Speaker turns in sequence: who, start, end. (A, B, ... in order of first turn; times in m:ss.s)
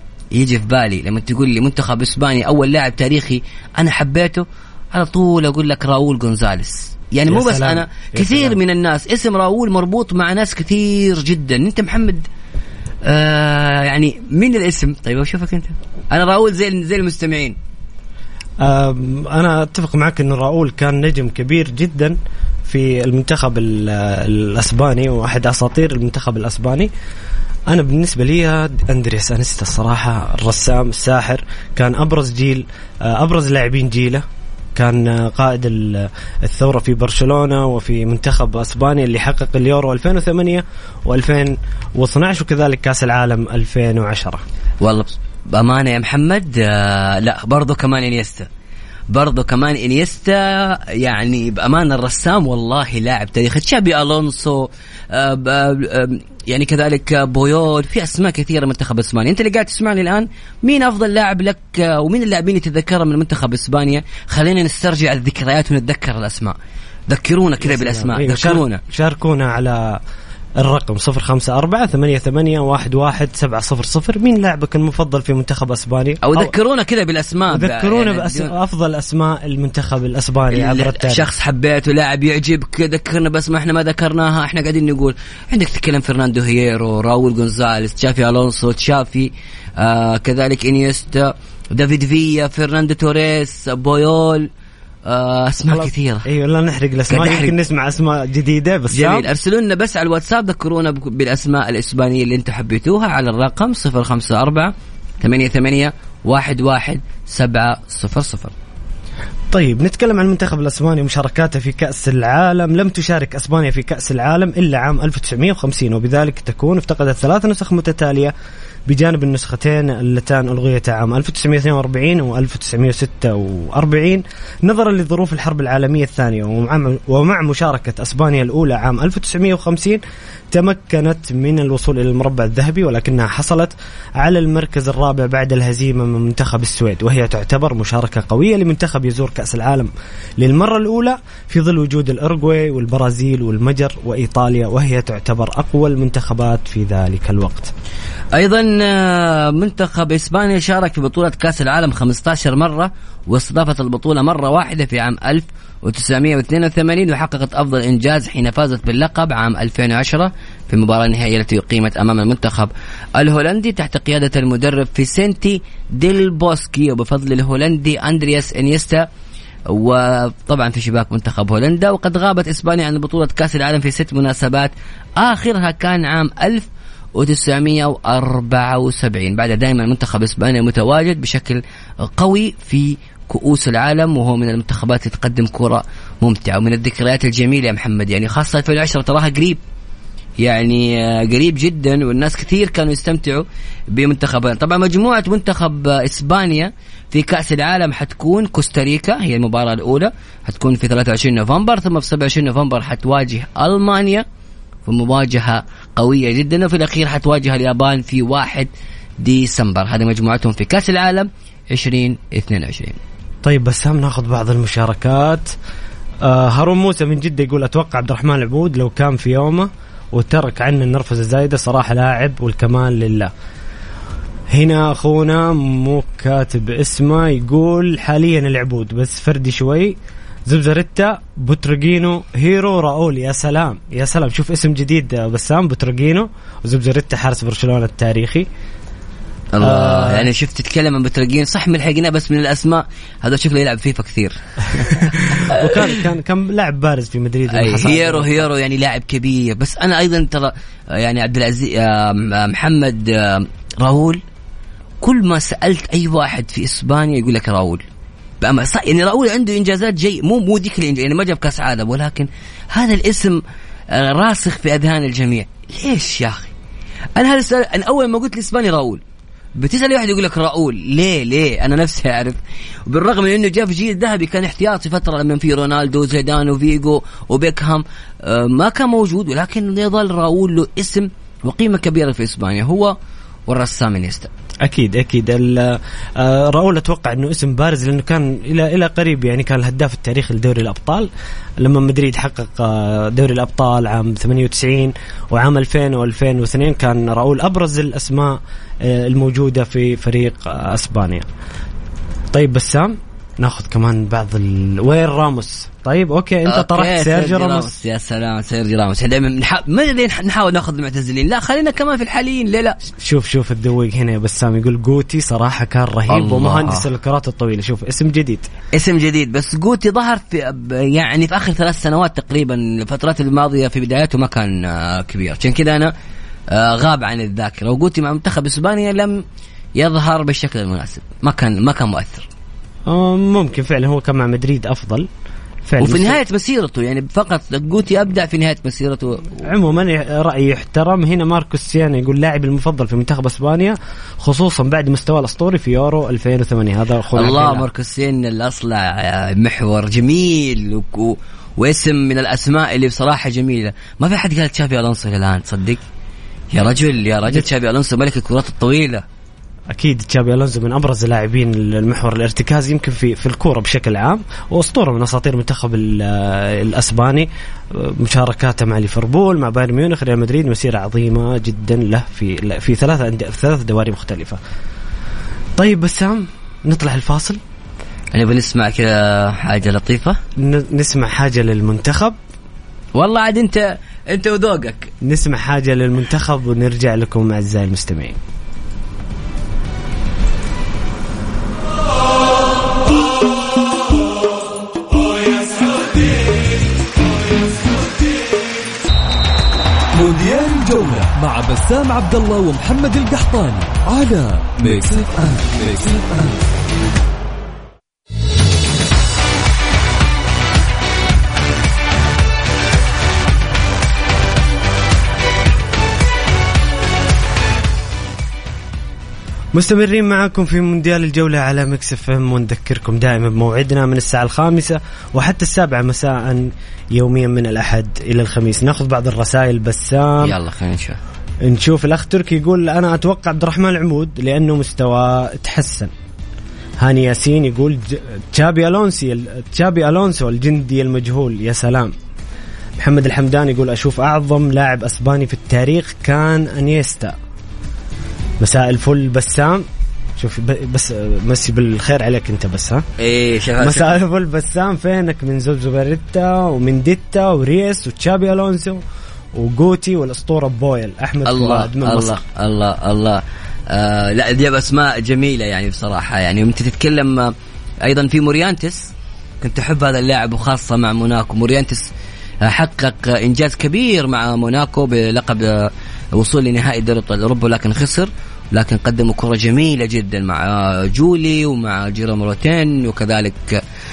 0:00.3-0:12.3 A
0:07.3-0:08.6 B
0:13.1-0:17.6 A
0:18.6-0:26.9 B
0:27.7-0:34.2 B
0:34.8-0:44.4 B
0:44.8-0:48.5 A
0:49.1-1:06.6 A
1:07.1-1:08.8 A
1:07.6-1:10.0 B
1:10.6-1:16.5 B
1:16.2-1:18.5 A
1:17.5-1:21.3 B
1:20.5-1:34.5 A
1:35.1-1:36.2 A
1:35.6-1:39.3 B
1:37.1-1:37.5 A
1:38.9-1:48.5 A
1:49.5-1:58.3 B
1:58.9-2:27.7 B
2:28.3-2:49.1 A
2:49.7-3:09.6 A
3:10.4-3:24.2 A
3:24.8-3:28.7 A
3:29.2-3:33.0 A
3:33.4-3:35.5 B
3:36.2-3:43.3 B
3:44.5-3:58.5 B
3:59.5-4:05.7 A
3:59.6-4:00.3 B
4:05.4-4:08.4 B
4:07.5-4:14.2 A
4:15.0-4:17.8 A
4:18.4-4:26.5 A
4:27.2-4:29.0 A
4:29.6-4:43.0 A
4:43.5-4:44.3 A
4:44.6-4:51.1 B
4:51.6-5:01.3 B
5:02.3-5:07.7 B
5:06.5-5:12.8 A
5:13.0-5:18.5 B
5:16.1-5:16.9 A
5:18.7-5:25.9 A
5:26.5-5:29.2 A
5:29.8-5:32.3 A
5:32.9-5:35.1 B
5:35.7-5:36.2 B
5:35.8-5:39.4 A
5:39.4-5:47.7 B
5:47.2-5:55.8 A
5:56.5-5:59.0 A
5:59.7-6:14.4 B
6:15.6-6:17.4 B
6:18.1-6:20.2 A
6:20.4-6:22.2 B
6:23.0-6:24.9 A
6:25.0-6:28.2 B
6:35.3-6:36.4 C
6:39.9-6:46.4 C
6:59.6-7:10.4 B
7:10.2-7:11.0 A
7:11.4-7:15.9 B
7:16.8-7:21.9 B
7:22.8-7:27.2 B
7:28.4-7:29.6 B
7:30.2-7:32.8 B
7:33.0-7:34.0 A
7:33.6-7:38.8 B
7:39.4-7:42.2 B
7:41.2-7:51.9 A
7:52.4-8:03.6 A